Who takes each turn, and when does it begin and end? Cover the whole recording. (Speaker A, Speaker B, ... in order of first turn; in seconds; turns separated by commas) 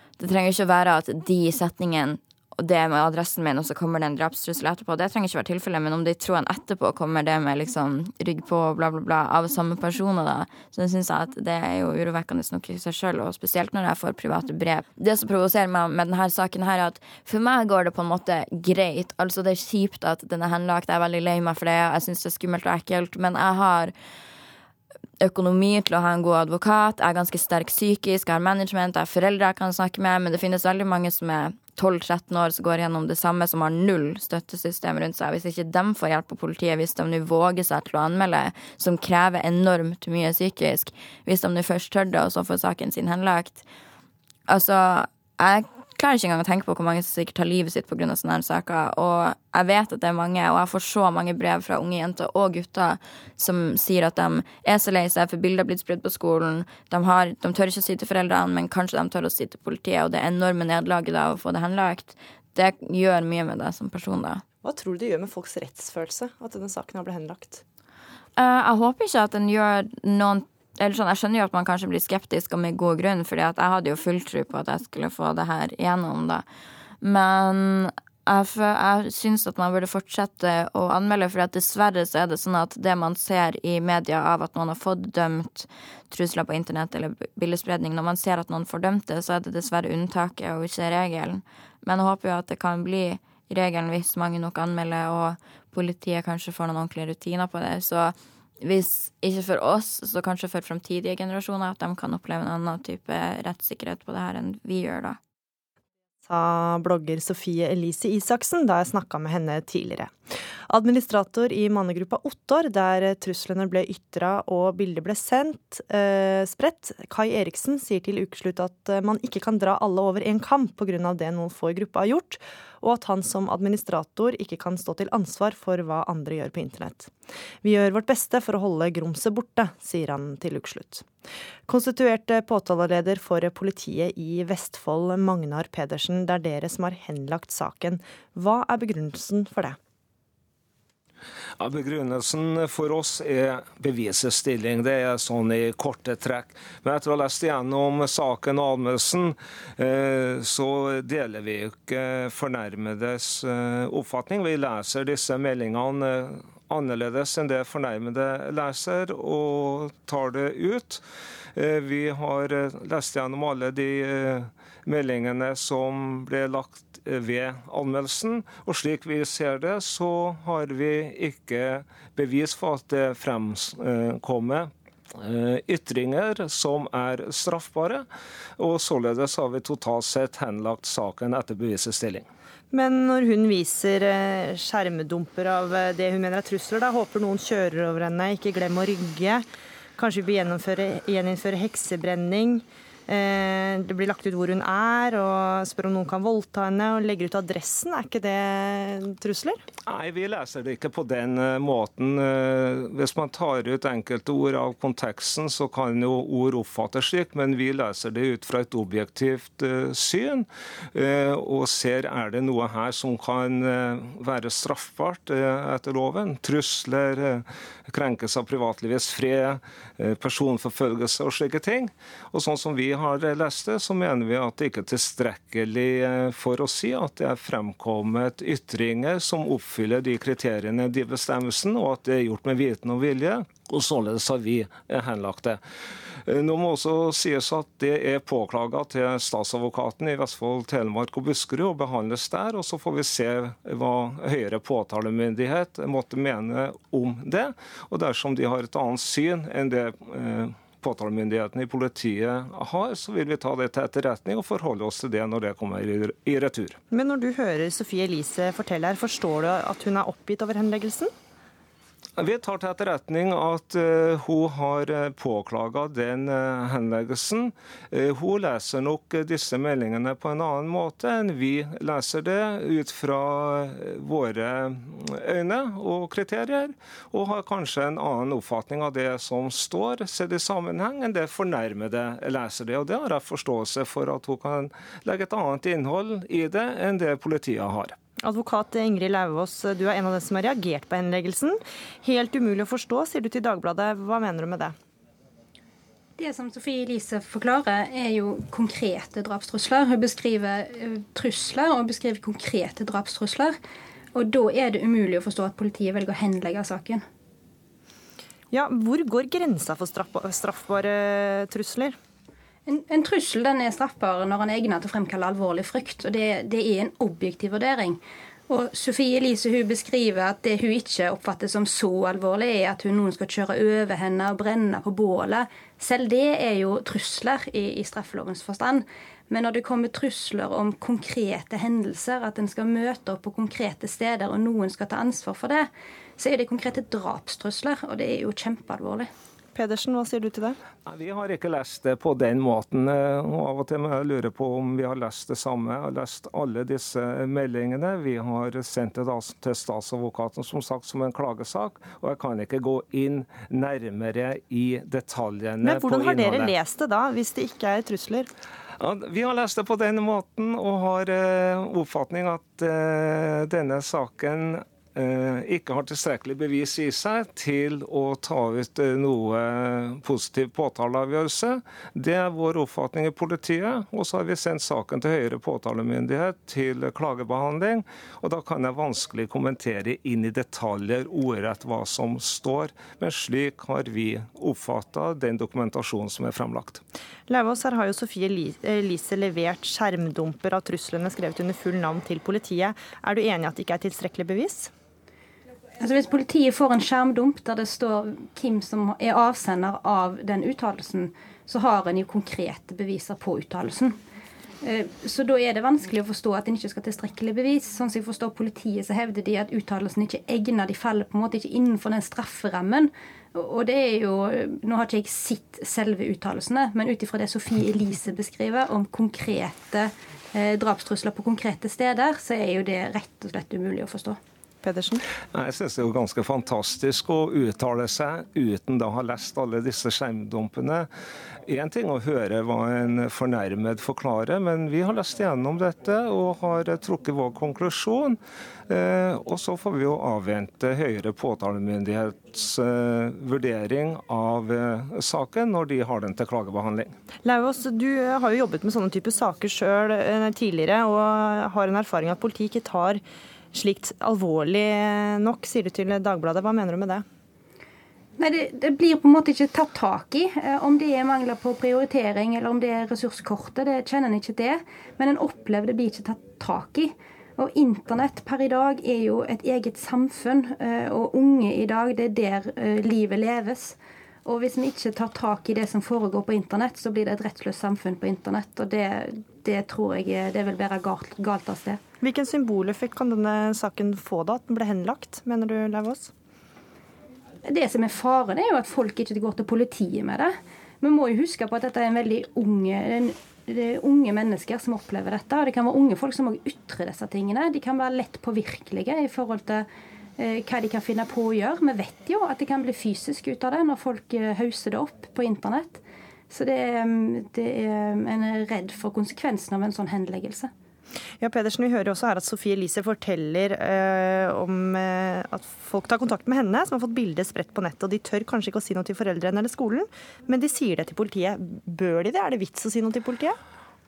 Speaker A: 0.2-23.9, Speaker A: 25.2-43.6, Speaker A: 44.5-64.4, Speaker B: 64.6-67.6, Speaker A: 68.4-76.5, Speaker A: 77.0-105.2, Speaker B: 106.2-110.2, Speaker B: 110.7-131.1, Speaker B: 131.7-139.8, Speaker C: 141.6-161.0, Speaker C: 161.6-178.1, Speaker C: 178.6-182.3, Speaker B: 182.7-189.5, Speaker B: 190.0-199.6, Speaker C: 199.9-235.6, Speaker C: 236.2-256.8, Speaker B: 256.9-261.1, Speaker C: 262.2-288.0, Speaker B: 288.2-294.8, Speaker D: 296.2-303.6, Speaker D: 304.1-307.1, Speaker B: 308.5-312.0, Speaker D: 312.7-339.1, Speaker B: 339.6-340.6, Speaker C: 340.9-356.6, Speaker B: 355.6-358.3, Speaker C: 358.8-386.8, Speaker B: 387.3-394.7, Speaker D: 395.8-404.0, Speaker D: 404.6-424.2, Speaker B: 424.6-425.0, Speaker C: 425.3-430.9, Speaker C: 431.5-446.9, Speaker B: 447.2-453.0, Speaker B: 453.5-457.0, Speaker D: 458.2-481.8, Speaker B: 482.0-486.1, Speaker D: 487.4-499.7, Speaker D: 500.2-510.5, Speaker B: 511.2-523.4